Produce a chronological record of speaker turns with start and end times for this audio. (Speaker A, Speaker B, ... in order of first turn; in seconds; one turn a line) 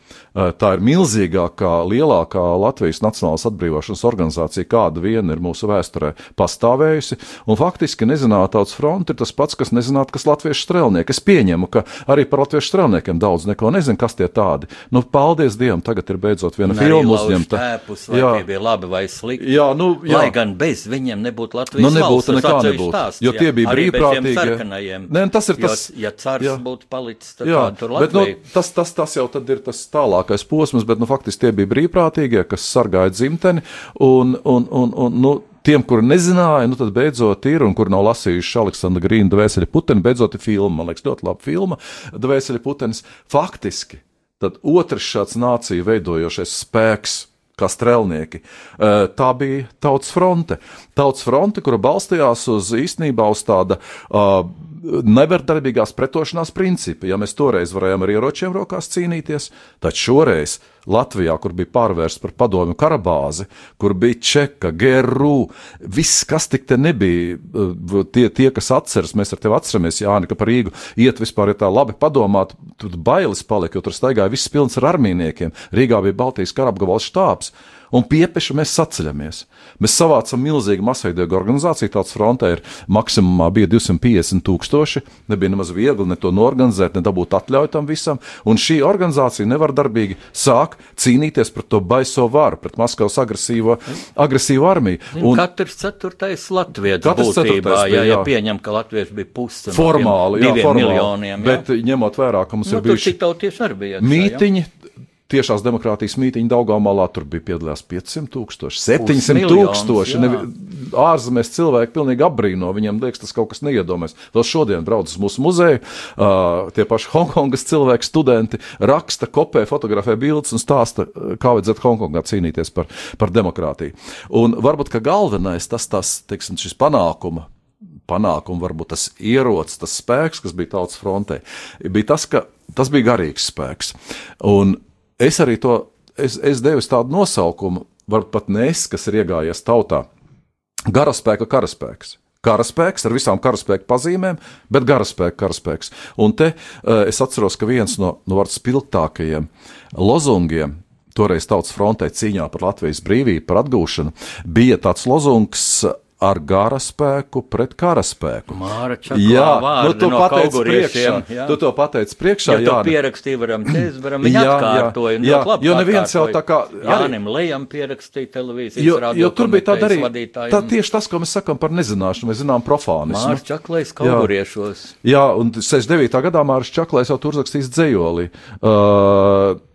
Speaker A: 0.3-18.4
Speaker B: 16.7-19.5
Speaker A: 19.4-20.4
Speaker B: 20.0-28.4
Speaker A: 21.8-26.6
Speaker A: 27.4-95.4
Speaker B: 95.2-101.6
Speaker A: 97.0-98.3
Speaker A: 99.7-103.2
Speaker B: 102.7-104.4
Speaker A: 104.0-104.7
Speaker A: 105.3-127.5
Speaker B: 109.0-110.5
Speaker A: 128.1-140.1
Speaker A: 140.9-158.6
Speaker B: 158.5-161.6
Speaker A: 159.1-162.9
Speaker B: 162.4-170.7
Speaker A: 164.2-167.1
Speaker A: 168.8-173.4
Speaker B: 173.1-174.9
Speaker A: 174.0-174.3
Speaker A: 175.0-179.6